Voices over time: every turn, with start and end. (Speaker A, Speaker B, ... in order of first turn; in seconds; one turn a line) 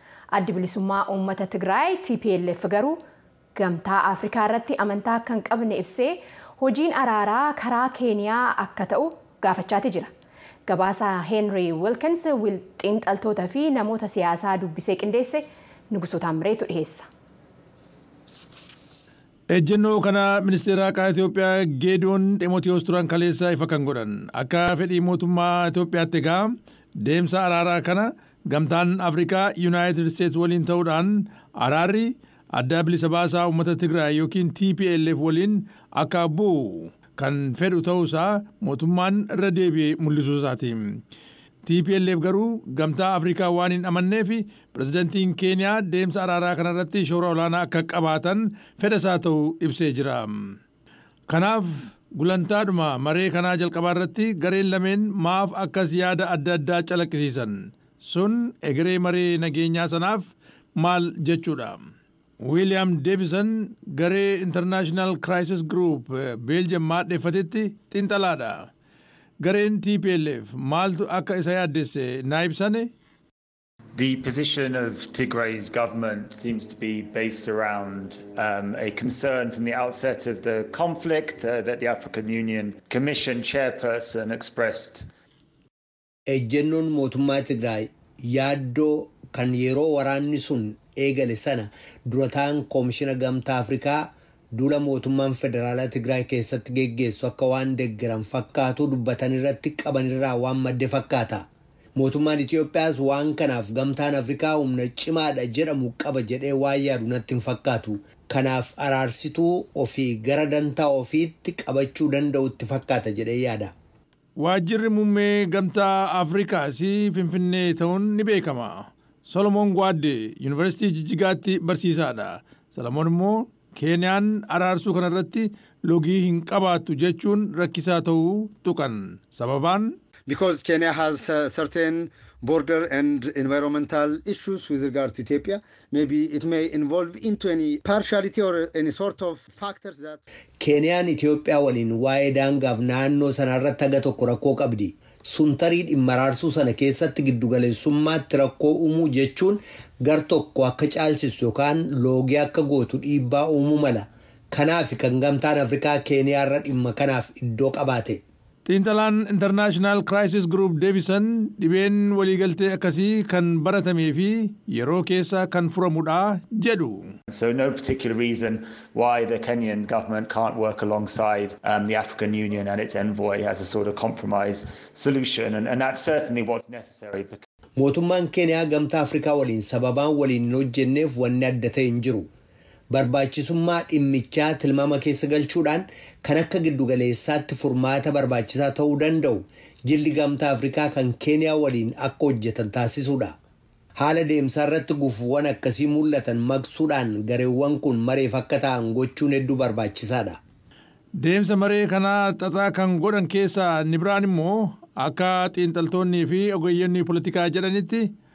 Speaker A: 0.3-3.0
Speaker A: 3.5-10.1
Speaker A: 10.7-17.1
Speaker B: 19.5-26.5
Speaker B: 27.0-41.0
Speaker B: 41.7-50.6
Speaker B: 51.3-61.8
Speaker B: 62.4-68.7
Speaker B: 69.4-72.9
Speaker C: 74.0-85.1
Speaker D: 86.3-113.7
Speaker B: 114.4-130.0
Speaker E: 130.3-140.2
Speaker D: 140.6-158.2
Speaker B: 158.7-167.2
Speaker C: 167.3-177.5
Speaker D: 177.8-182.3
Speaker D: 182.9-193.3
Speaker D: 194.0-200.4
Speaker B: 201.2-208.1